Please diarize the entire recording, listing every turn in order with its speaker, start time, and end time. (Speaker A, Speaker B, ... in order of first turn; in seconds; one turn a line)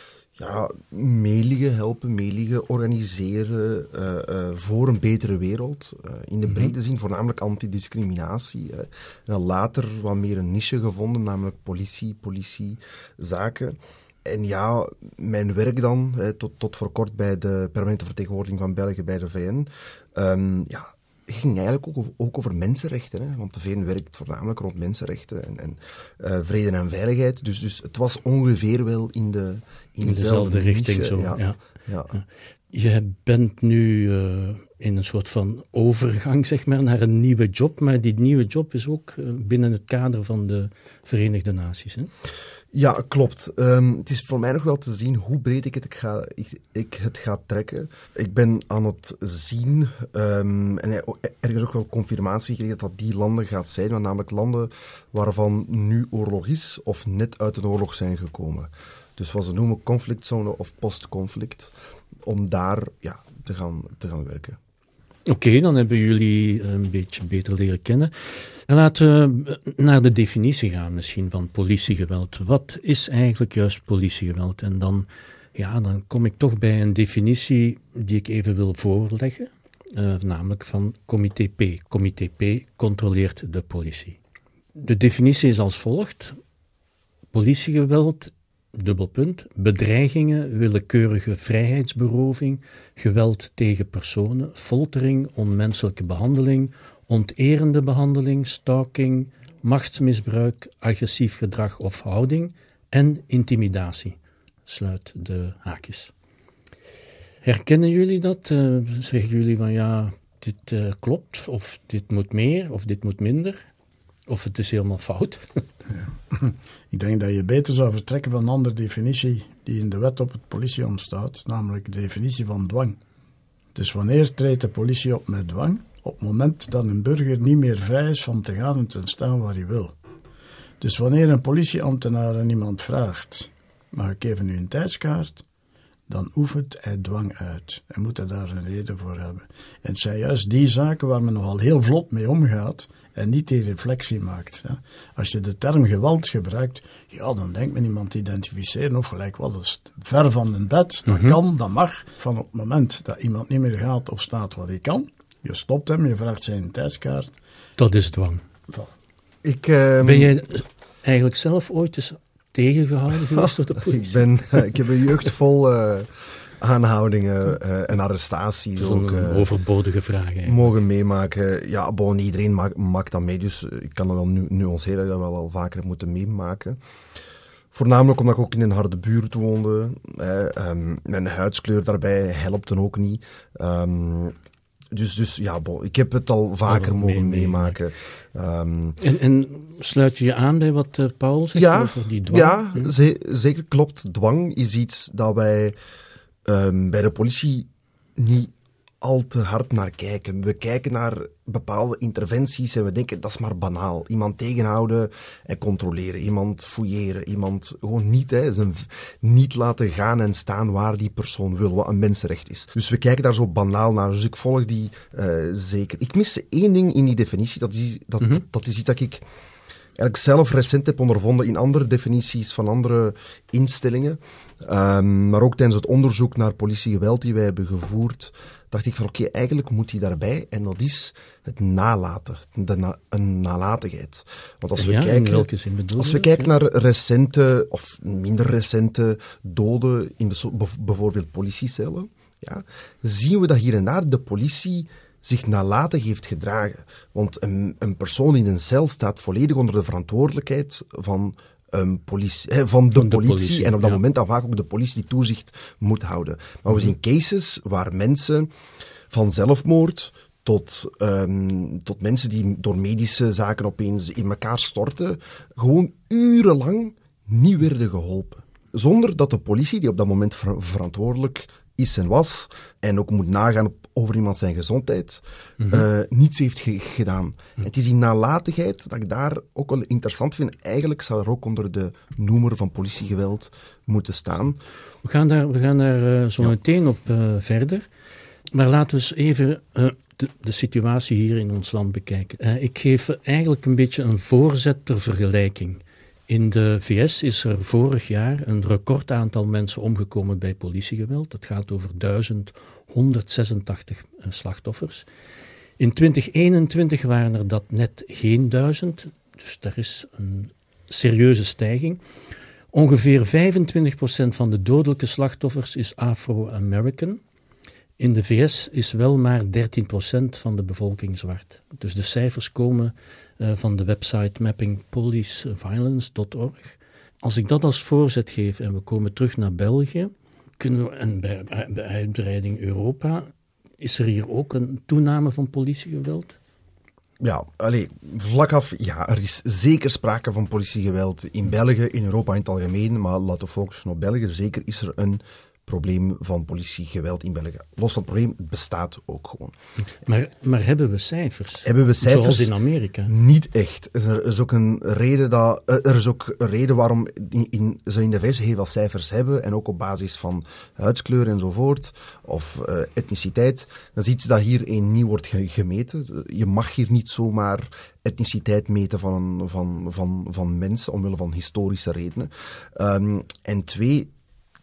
Speaker A: 0.4-32.1
Speaker B: 30.0-31.6
Speaker B: 32.1-42.1
Speaker A: 42.7-61.7
Speaker A: 62.2-64.6
Speaker B: 65.3-68.1
Speaker B: 68.7-84.2
Speaker B: 84.8-86.4
Speaker B: 87.3-106.1
Speaker B: 107.4-113.7
Speaker B: 114.3-115.5
Speaker C: 115.9-123.0
Speaker C: 123.8-129.9
Speaker C: 130.8-135.4
Speaker C: 136.1-157.3
Speaker B: 151.1-151.4
Speaker B: 157.8-158.4
Speaker A: 159.4-160.4
Speaker B: 160.0-164.2
Speaker A: 163.4-169.5
Speaker B: 168.8-170.7
Speaker A: 170.5-176.8
Speaker A: 177.7-184.4
Speaker A: 184.9-189.0
Speaker B: 186.7-187.8
Speaker B: 189.0-192.9
Speaker A: 191.5-195.8
Speaker A: 196.5-219.2
Speaker A: 220.0-258.5
Speaker B: 234.8-236.5
Speaker B: 253.0-254.0
Speaker A: 259.1-284.6
Speaker B: 275.6-275.9
Speaker B: 285.0-287.9
Speaker B: 288.5-305.1
Speaker B: 305.8-312.0
Speaker B: 312.7-317.2
Speaker B: 318.0-333.3
Speaker B: 333.8-336.4
Speaker A: 337.2-349.6
Speaker B: 350.1-353.1
Speaker A: 351.6-352.5
Speaker A: 353.1-374.1